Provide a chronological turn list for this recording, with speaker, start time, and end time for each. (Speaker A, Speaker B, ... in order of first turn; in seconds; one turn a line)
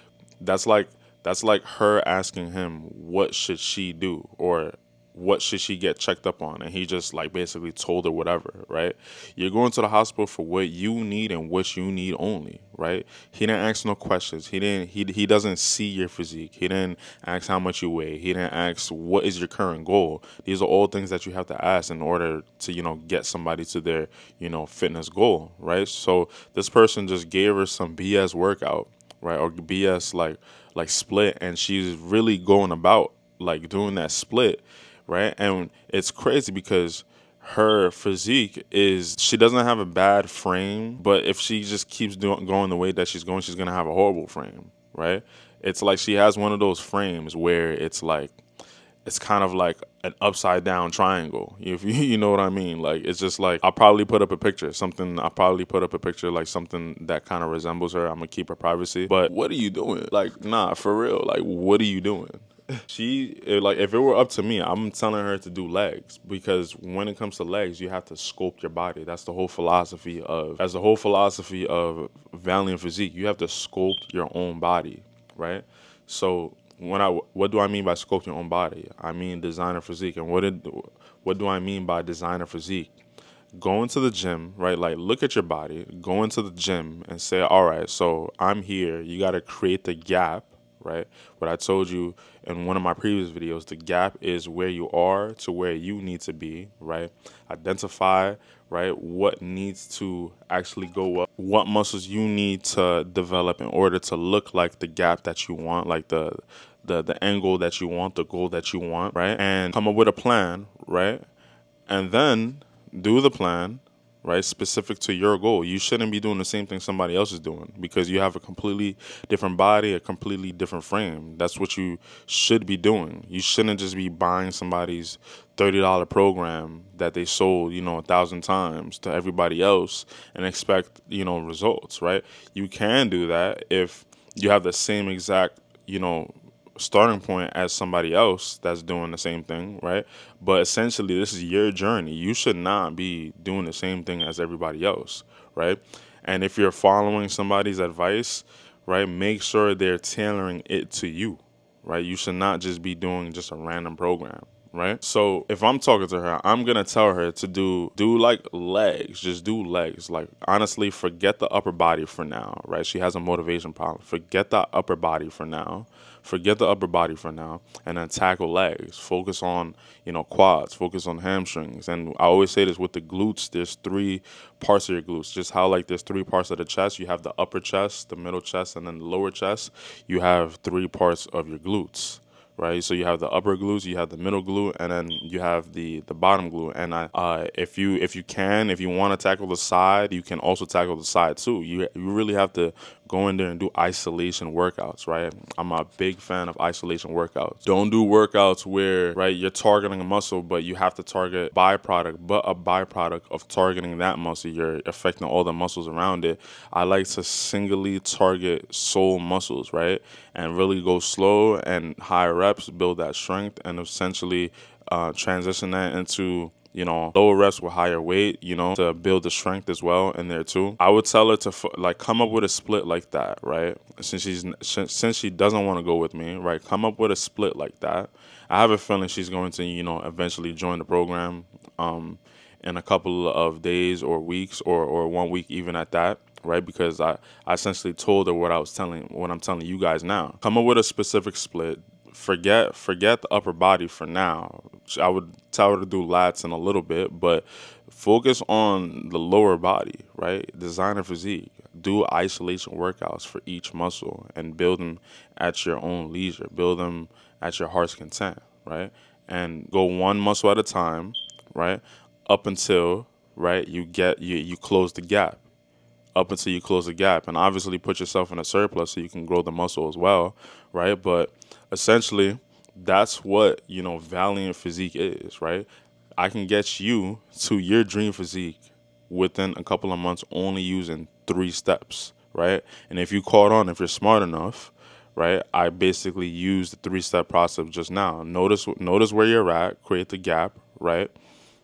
Speaker A: 0.4-48.4
Speaker A: 49.0-82.9
Speaker A: 83.5-111.2
Speaker A: 111.9-265.4
Speaker A: 266.1-291.1